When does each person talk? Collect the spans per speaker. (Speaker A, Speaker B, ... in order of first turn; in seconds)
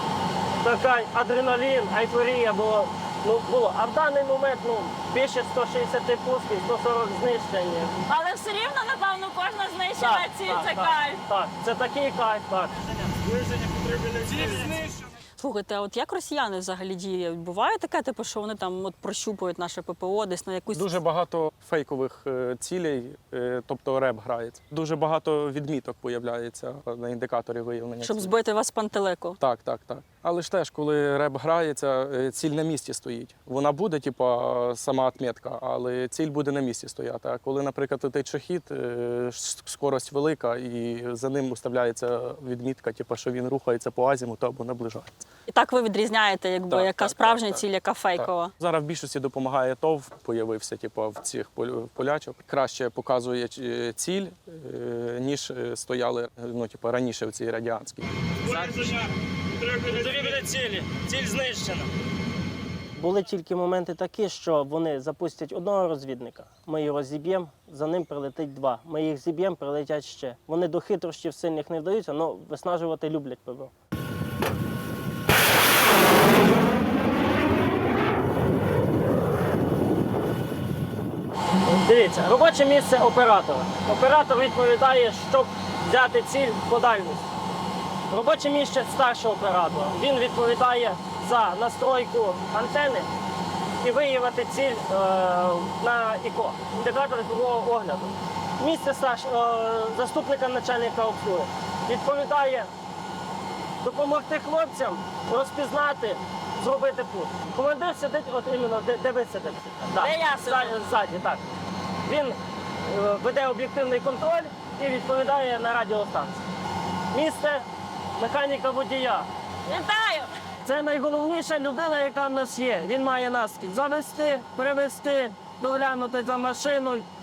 Speaker A: 0.6-8.0, 10.0-12.9, 58.5-59.0, 59.8-61.9, 63.0-73.7, 81.6-87.3, 88.1-93.1, 93.8-102.7, 103.8-111.4, 112.1-116.4, 117.1-117.7, 118.2-119.3, 120.6-127.0
Speaker B: 8.1-11.2, 15.4-21.0, 28.0-29.4, 45.5-48.5, 110.0-110.8, 119.7-120.3
Speaker C: 13.2-14.9, 58.4-60.4
Speaker D: 20.7-28.3, 29.4-45.2, 46.7-58.1